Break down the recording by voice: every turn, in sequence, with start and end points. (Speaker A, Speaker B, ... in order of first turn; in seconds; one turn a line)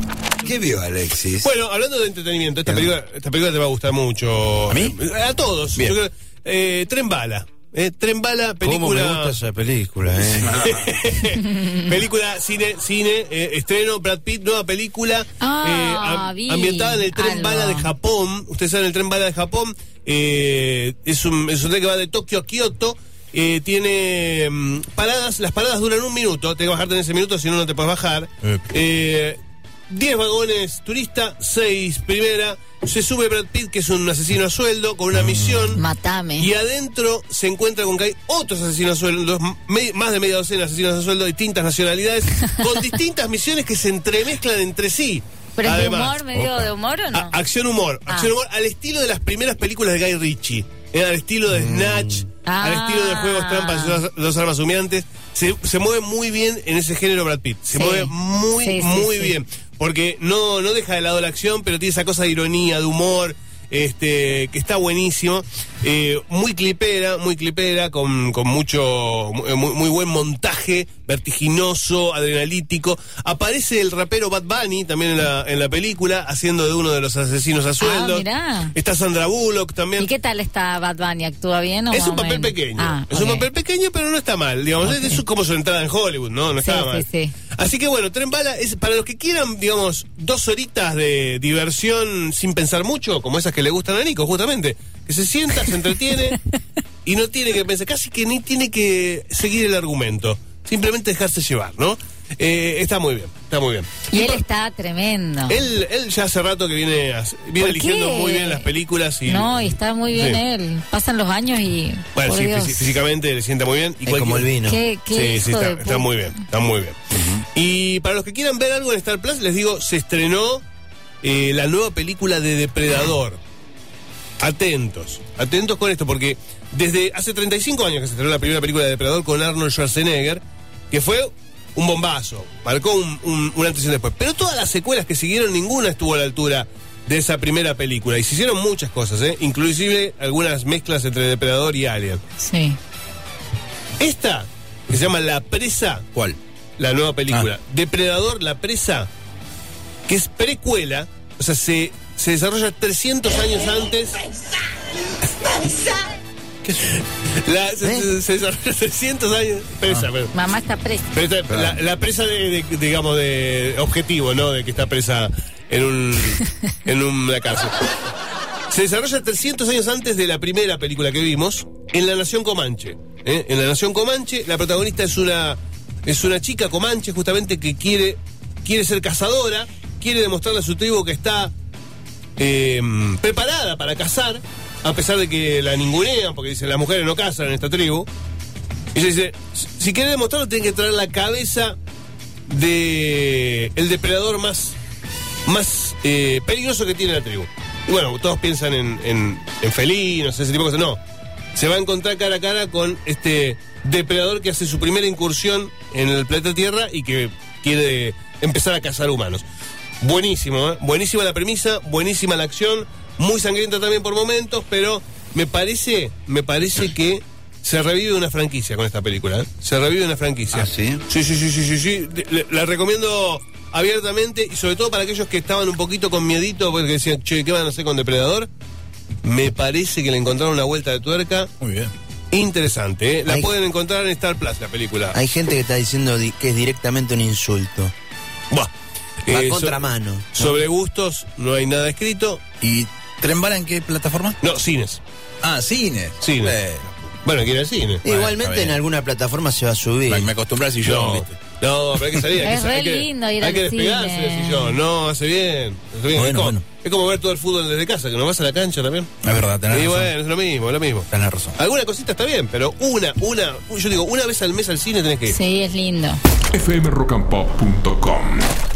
Speaker A: 0.4-1.4
Speaker B: 1.4-9.3
Speaker A: 8.6-10.6
Speaker B: 10.4-29.4
Speaker C: 15.4-17.9
Speaker B: 29.9-46.2
Speaker C: 35.7-36.5
Speaker C: 45.6-47.3
Speaker D: 46.3-46.7
Speaker B: 47.1-80.1
Speaker C: 52.5-54.0
Speaker C: 57.7-59.3
Speaker C: 77.8-78.7
Speaker C: 80.0-83.5
Speaker B: 81.9-96.4
Speaker C: 84.8-85.2
Speaker C: 86.6-87.3
Speaker B: 97.0-104.4
Speaker C: 104.1-105.7
Speaker B: 105.5-110.4
Speaker C: 107.6-108.7
Speaker C: 109.2-112.9
Speaker B: 112.1-114.5
Speaker A: 114.0-114.8
Speaker C: 114.6-116.1
Speaker B: 115.1-117.0
Speaker A: 117.1-117.4
Speaker B: 117.5-120.6
Speaker B: 121.2-123.4
Speaker B: 124.4-142.2
Speaker C: 142.4-142.8
Speaker B: 144.0-146.1
Speaker B: 146.8-149.1
Speaker B: 150.1-154.2
Speaker B: 155.4-156.0
Speaker B: 156.6-160.3
Speaker A: 157.8-158.1
Speaker C: 160.3-161.1
Speaker B: 161.1-167.8
Speaker B: 168.7-181.5
Speaker B: 182.4-188.1
Speaker B: 188.9-191.8
Speaker B: 192.5-194.8
Speaker B: 195.4-201.0
Speaker B: 201.5-209.4
Speaker B: 210.0-228.5
Speaker A: 220.5-221.0
Speaker B: 229.2-231.5
Speaker D: 231.6-231.9
Speaker B: 232.3-235.2
Speaker A: 235.1-237.9
Speaker B: 239.2-242.4
Speaker A: 239.3-240.6
Speaker D: 242.6-244.3
Speaker B: 244.4-245.0
Speaker D: 245.4-247.0
Speaker B: 246.2-246.6
Speaker B: 247.2-248.0
Speaker A: 248.0-250.3
Speaker D: 248.1-248.8
Speaker D: 250.1-251.2
Speaker B: 250.8-259.1
Speaker C: 252.4-254.8
Speaker D: 256.1-256.6
Speaker D: 259.2-260.1
Speaker B: 259.7-265.4
Speaker D: 261.1-261.5
Speaker C: 265.3-266.2
Speaker E: 266.5-268.5